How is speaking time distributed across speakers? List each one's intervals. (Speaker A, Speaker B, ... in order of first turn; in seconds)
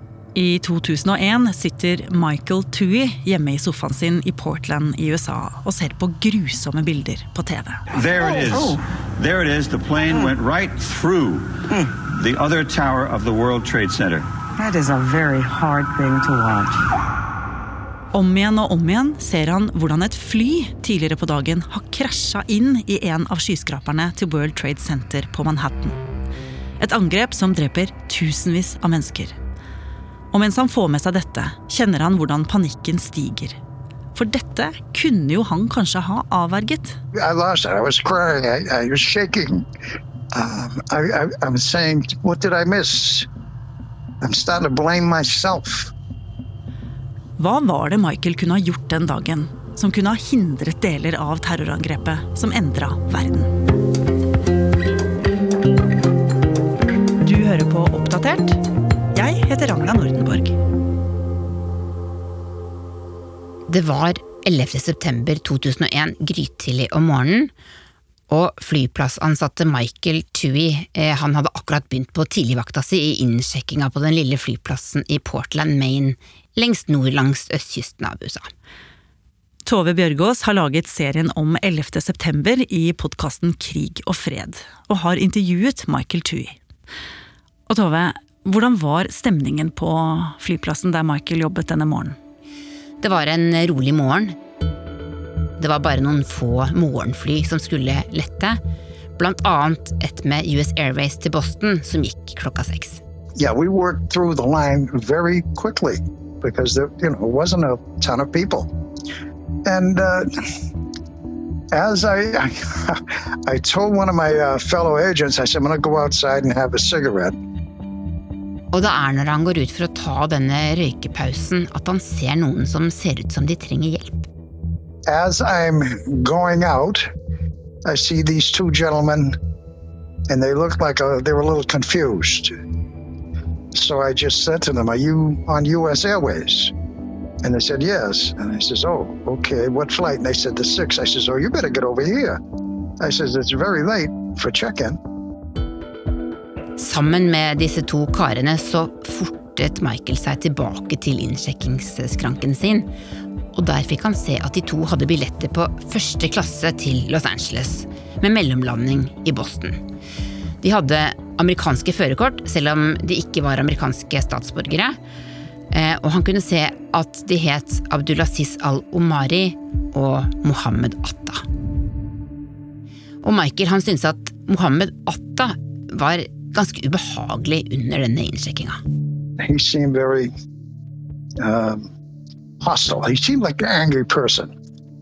Speaker A: 0.3-7.8, 18.1-26.0, 26.8-29.4, 30.3-33.6, 34.1-37.0, 47.4-53.5, 57.2-58.6, 59.1-60.6, 79.7-86.6, 87.7-92.2
Speaker B: 7.9-14.3
Speaker C: 14.6-16.8
Speaker D: 37.1-39.6, 40.3-43.3, 44.2-45.9, 103.4-108.7, 109.7-110.3, 111.7-117.3, 125.1-127.1, 127.9-129.3, 130.3-132.5, 133.7-136.7, 137.4-142.4, 143.0-145.0, 179.4-180.3, 181.4-181.9, 182.6-184.5
Speaker E: 63.7-67.5, 68.3-78.5, 93.0-94.3, 95.6-98.6, 99.2-103.0, 118.7-124.3, 146.8-152.9, 153.5-159.8, 160.6-164.9, 165.7-171.4, 173.2-178.8